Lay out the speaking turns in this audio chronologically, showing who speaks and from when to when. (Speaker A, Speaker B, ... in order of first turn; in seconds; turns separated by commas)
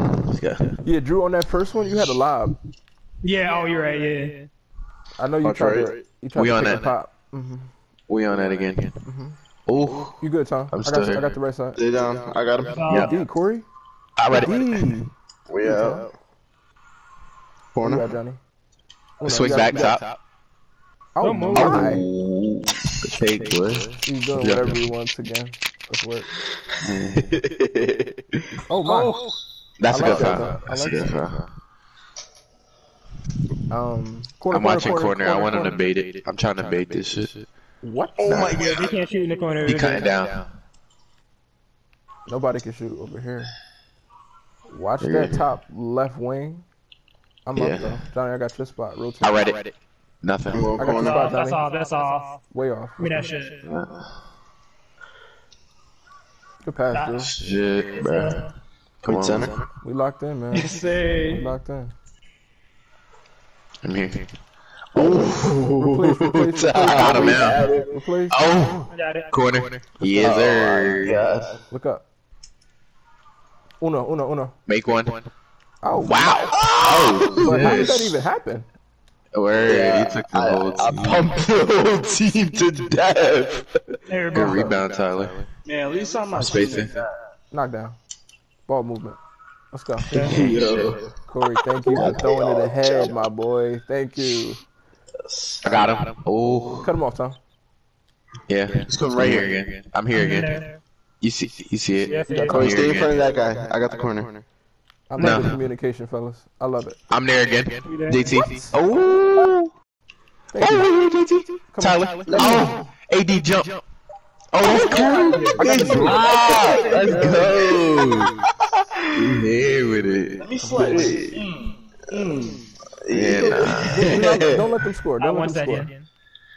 Speaker A: 0.3-0.6, Speaker B: 0.8-2.6, Speaker C: 3.2-4.5, Speaker B: 5.2-7.7, Speaker D: 5.4-6.0, Speaker A: 6.3-6.9, Speaker A: 8.1-9.0, Speaker B: 9.1-9.4, Speaker A: 9.7-10.2, Speaker B: 10.2-11.8, Speaker A: 10.7-11.3, Speaker D: 11.8-13.1, Speaker C: 12.7-13.1, Speaker A: 12.9-13.1, Speaker B: 12.9-13.7, Speaker A: 14.2-14.8, Speaker B: 14.3-16.1, Speaker D: 15.5-16.1, Speaker D: 17.7-18.1, Speaker B: 17.8-18.4, Speaker B: 19.2-20.0, Speaker A: 19.2-20.2, Speaker B: 21.1-22.1, Speaker C: 21.2-21.9, Speaker A: 21.5-24.8, Speaker B: 24.1-26.3, Speaker D: 26.8-27.4, Speaker A: 27.3-28.0, Speaker B: 28.7-29.2, Speaker C: 28.9-29.4, Speaker A: 29.8-31.4, Speaker B: 29.9-31.1, Speaker D: 30.0-30.4, Speaker B: 33.7-35.8, Speaker A: 34.5-37.4, Speaker B: 37.8-38.5, Speaker A: 38.2-38.6, Speaker D: 38.2-38.9, Speaker C: 38.6-40.1, Speaker A: 39.6-40.5, Speaker B: 42.3-43.5, Speaker B: 44.7-46.7, Speaker A: 45.0-45.3, Speaker B: 47.5-49.5, Speaker A: 47.5-47.9, Speaker A: 49.2-50.7, Speaker D: 50.5-51.3, Speaker B: 50.8-51.6, Speaker C: 50.8-52.4, Speaker B: 52.5-53.3, Speaker C: 53.0-53.6, Speaker A: 53.7-54.0, Speaker B: 56.6-57.3, Speaker C: 56.9-57.3, Speaker A: 57.2-58.4, Speaker C: 57.9-58.5, Speaker A: 59.0-59.5, Speaker D: 59.0-59.7, Speaker B: 59.8-61.9, Speaker C: 60.5-61.5, Speaker A: 63.9-64.3, Speaker A: 64.9-67.7, Speaker D: 65.0-65.7, Speaker B: 65.8-68.4, Speaker D: 66.8-67.9, Speaker A: 68.3-71.2, Speaker C: 68.9-69.4, Speaker D: 70.2-71.7, Speaker B: 71.7-72.0, Speaker B: 73.8-74.5, Speaker A: 74.7-75.3, Speaker B: 75.8-76.4, Speaker A: 76.0-78.1, Speaker D: 76.6-77.9, Speaker B: 77.4-78.7, Speaker A: 79.3-81.4, Speaker D: 79.6-83.4, Speaker A: 82.2-83.7, Speaker C: 84.1-84.7, Speaker A: 84.3-85.5, Speaker B: 84.4-84.8, Speaker E: 85.7-87.0, Speaker A: 86.3-87.0, Speaker B: 87.5-88.0, Speaker B: 88.7-89.2, Speaker B: 89.7-90.5, Speaker C: 90.1-90.5, Speaker D: 90.1-91.1, Speaker A: 90.2-90.9, Speaker B: 91.3-94.6, Speaker D: 91.9-93.2, Speaker D: 95.2-96.0, Speaker A: 95.6-96.9, Speaker B: 96.8-97.4, Speaker A: 98.5-100.6, Speaker D: 98.9-99.6, Speaker C: 100.1-100.8, Speaker A: 101.2-103.2, Speaker C: 102.0-102.6, Speaker B: 102.3-102.7, Speaker D: 102.5-104.5, Speaker B: 105.1-107.0, Speaker A: 105.2-105.6, Speaker A: 107.1-109.7, Speaker C: 107.9-108.4, Speaker B: 108.2-108.8, Speaker B: 110.5-110.9, Speaker A: 110.6-113.8, Speaker B: 111.7-112.8, Speaker D: 112.3-112.7, Speaker A: 114.5-118.3, Speaker E: 114.9-117.8, Speaker B: 115.5-116.3, Speaker D: 115.7-117.5, Speaker A: 119.2-120.5, Speaker E: 120.4-122.6, Speaker B: 120.6-121.2, Speaker D: 121.0-121.3, Speaker D: 123.0-124.5, Speaker A: 123.1-124.5, Speaker B: 123.7-125.9, Speaker C: 125.2-126.1